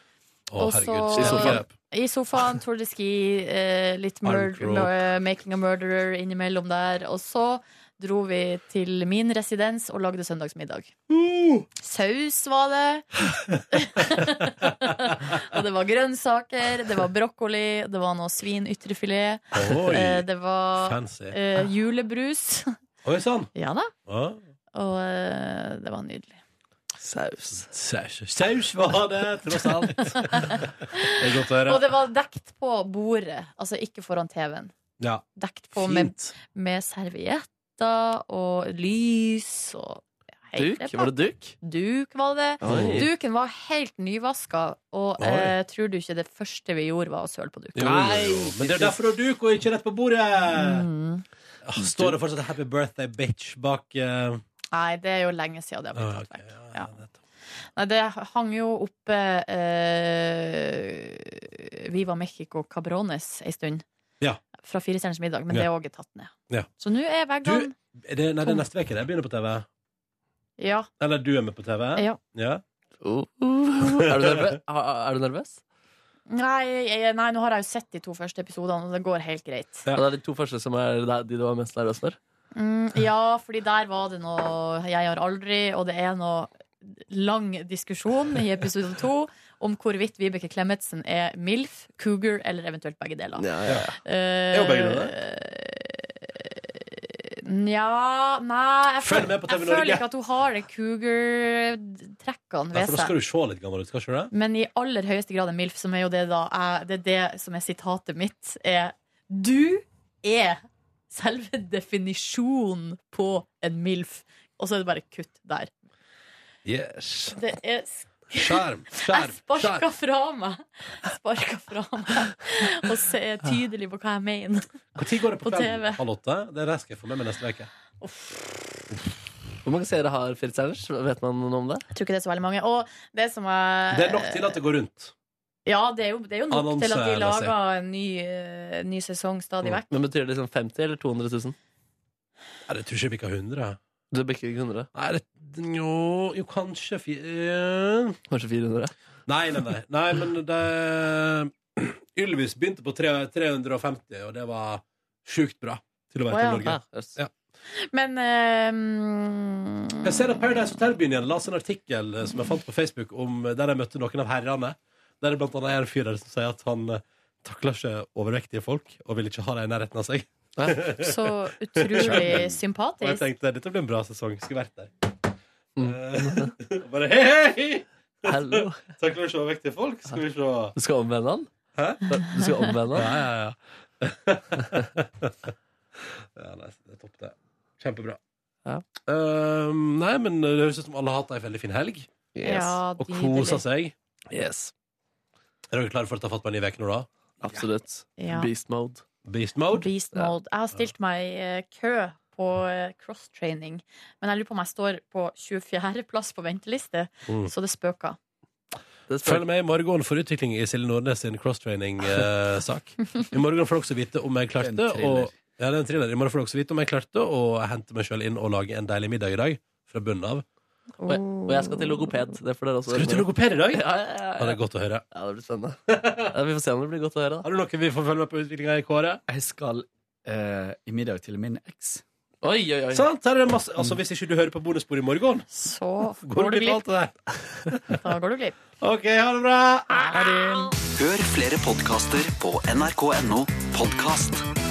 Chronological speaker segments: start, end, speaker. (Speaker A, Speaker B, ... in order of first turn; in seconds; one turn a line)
Speaker A: 0.5-1.7
Speaker B: 0.6-10.9
Speaker C: 1.1-1.6
Speaker A: 4.2-4.9
Speaker A: 11.1-11.7
Speaker B: 11.8-13.1
Speaker B: 13.7-22.7
Speaker A: 19.5-20.2
Speaker A: 20.8-21.4
Speaker A: 23.0-23.5
Speaker B: 23.5-23.9
Speaker A: 24.1-24.4
Speaker B: 24.7-26.4
Speaker C: 27.0-27.7
Speaker A: 27.6-31.8
Speaker B: 30.1-34.7
Speaker A: 35.0-36.3
Speaker B: 35.4-47.9
Speaker C: 40.5-41.5
Speaker C: 42.6-43.1
Speaker A: 42.6-43.0
Speaker A: 45.2-45.5
Speaker A: 47.7-50.9
Speaker C: 47.8-49.0
Speaker B: 50.5-51.2
Speaker A: 51.6-54.4
Speaker C: 51.9-52.1
Speaker B: 54.7-56.9
Speaker A: 55.9-57.1
Speaker B: 57.8-63.8
Speaker B: 64.6-67.7
Speaker A: 67.4-69.7
Speaker B: 70.6-70.9
Speaker A: 71.0-72.6
Speaker C: 73.0-75.6
Speaker A: 74.0-74.5
Speaker B: 76.3-79.8
Speaker C: 79.9-82.2
Speaker B: 82.5-96.3
Speaker C: 93.4-94.0
Speaker A: 94.5-95.1
Speaker B: 96.9-103.1
Speaker A: 99.0-100.0
Speaker A: 102.7-104.3
Speaker B: 104.3-115.7
Speaker A: 116.6-117.4
Speaker B: 117.3-124.7
Speaker A: 118.3-119.8
Speaker A: 125.0-127.7
Speaker B: 125.4-126.0
Speaker B: 128.0-128.5
Speaker C: 129.6-131.8
Speaker B: 131.9-134.6
Speaker A: 133.9-135.1
Speaker B: 135.7-139.9
Speaker A: 136.5-137.5
Speaker C: 139.6-141.5
Speaker A: 142.7-143.8
Speaker C: 144.1-144.9
Speaker A: 144.9-148.2
Speaker C: 148.3-148.9
Speaker A: 149.3-157.3
Speaker B: 156.3-156.7
Speaker C: 156.7-157.1
Speaker B: 157.8-160.0
Speaker A: 160.0-175.1
Speaker C: 170.6-170.9
Speaker B: 171.0-173.2
Speaker C: 175.8-176.5
Speaker A: 175.8-180.7
Speaker C: 178.2-178.8
Speaker C: 180.8-181.5
Speaker A: 181.8-182.2
Speaker C: 182.1-183.2
Speaker A: 182.9-188.2
Speaker A: 189.1-192.1
Speaker C: 192.3-192.8
Speaker B: 192.4-193.6
Speaker A: 193.0-193.9
Speaker C: 194.3-194.7
Speaker A: 195.7-197.1
Speaker C: 197.4-199.0
Speaker B: 198.2-198.5
Speaker A: 199.2-199.9
Speaker B: 199.7-208.2
Speaker C: 209.1-209.4
Speaker A: 209.2-220.4
Speaker D: 214.6-215.4
Speaker B: 221.0-221.8
Speaker C: 221.1-224.6
Speaker A: 222.9-225.0
Speaker C: 225.1-227.4
Speaker A: 225.9-226.3
Speaker A: 227.4-229.2
Speaker D: 229.3-232.0
Speaker C: 232.4-233.1
Speaker A: 232.9-235.4
Speaker B: 235.5-236.8
Speaker A: 236.2-238.0
Speaker B: 237.9-238.6
Speaker A: 238.8-240.1
Speaker D: 240.1-240.7
Speaker E: 240.9-244.4